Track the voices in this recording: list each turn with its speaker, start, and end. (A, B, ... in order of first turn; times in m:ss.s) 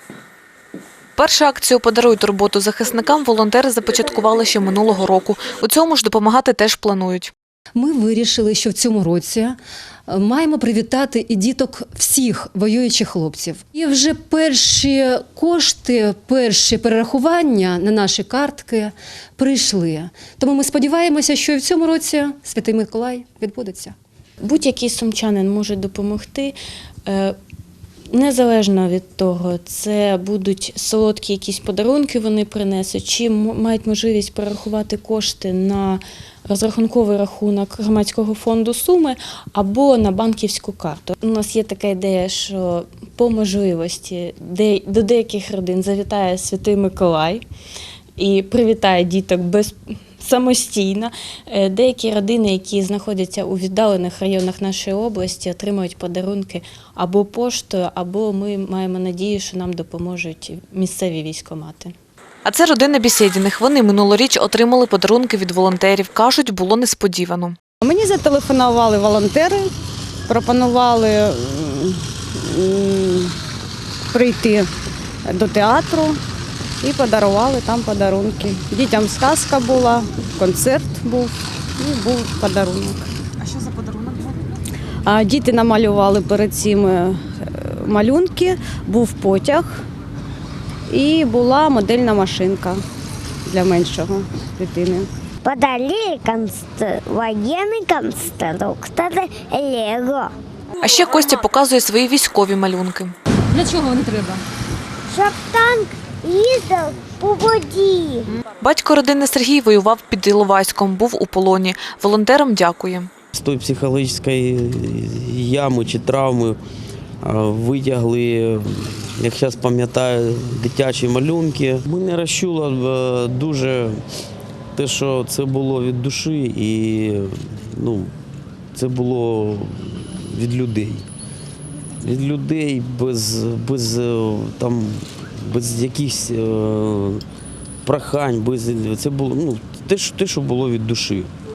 0:01.2-0:07.3 A
0:07.7-0:09.6 B
0:10.1-0:23.9 B
0:24.4-0:26.5 C
0:27.0-0:27.3 C
0:28.1-0:47.4 C
0:48.2-1:01.9 C
1:02.4-1:07.6 A
1:07.8-1:09.7 D
1:10.3-1:13.3 D
1:14.1-1:14.7 D
1:15.2-1:16.2 D
1:16.8-1:23.0 D
1:25.0-1:29.8 D
1:30.9-1:32.8 D
1:33.4-1:35.1 D
1:35.4-1:40.3 E
1:40.8-1:43.1 A
1:43.5-1:44.4 B
1:45.1-1:48.2 E
1:48.6-1:53.1 A
1:53.3-1:56.6 F
1:57.2-2:04.0 F
2:04.8-2:08.1 F
2:08.7-2:11.0 F
2:12.0-2:17.2 F
2:17.8-2:21.3 F